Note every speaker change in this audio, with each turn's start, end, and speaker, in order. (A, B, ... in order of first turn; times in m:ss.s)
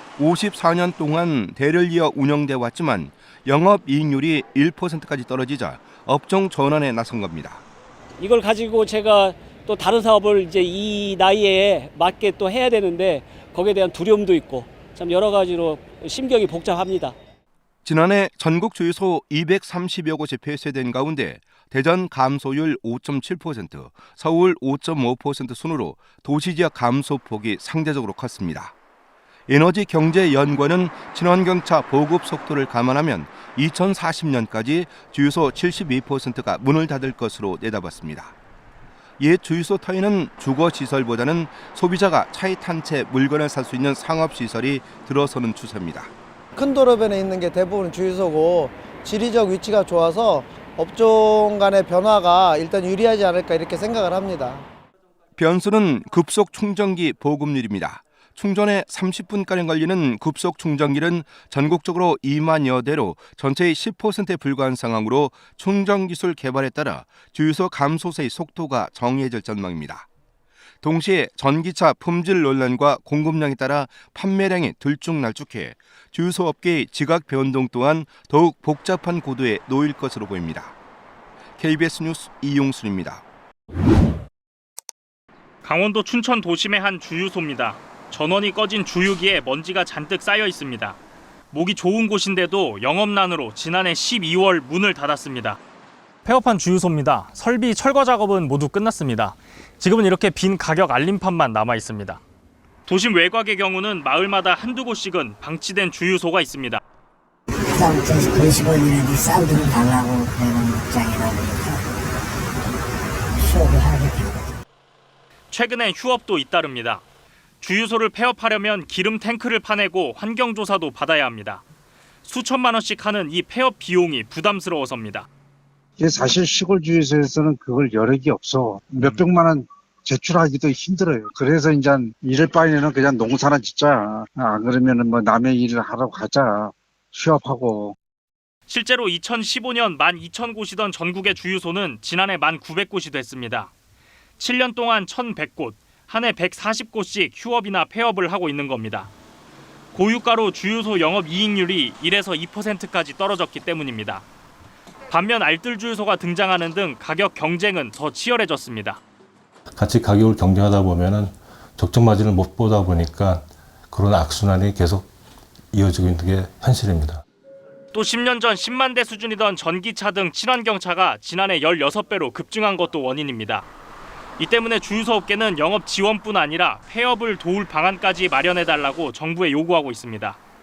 0:00.2-0:07.6 A
0:08.2-0:17.2 B
0:17.8-0:28.7 A
0:29.5-0:38.4 A
0:39.2-0:46.1 A
0:46.6-0:54.6 C
0:55.4-1:10.1 A
1:10.8-1:20.8 A
1:21.6-1:23.2 A
1:25.6-1:31.0 D
1:31.5-1:35.6 D
1:36.2-1:42.2 D
1:42.9-1:46.8 D
1:47.7-1:52.0 E
1:53.3-1:54.6 E
1:55.5-1:57.0 D
1:57.6-2:01.6 D
2:02.3-2:05.3 D
2:06.0-2:18.0 F
2:18.7-2:23.7 D
2:24.4-2:29.1 D
2:29.9-2:34.2 D
2:35.1-2:39.0 D
2:39.8-2:45.1 G
2:45.7-2:47.2 G
2:47.9-2:53.7 D
2:54.4-3:00.4 D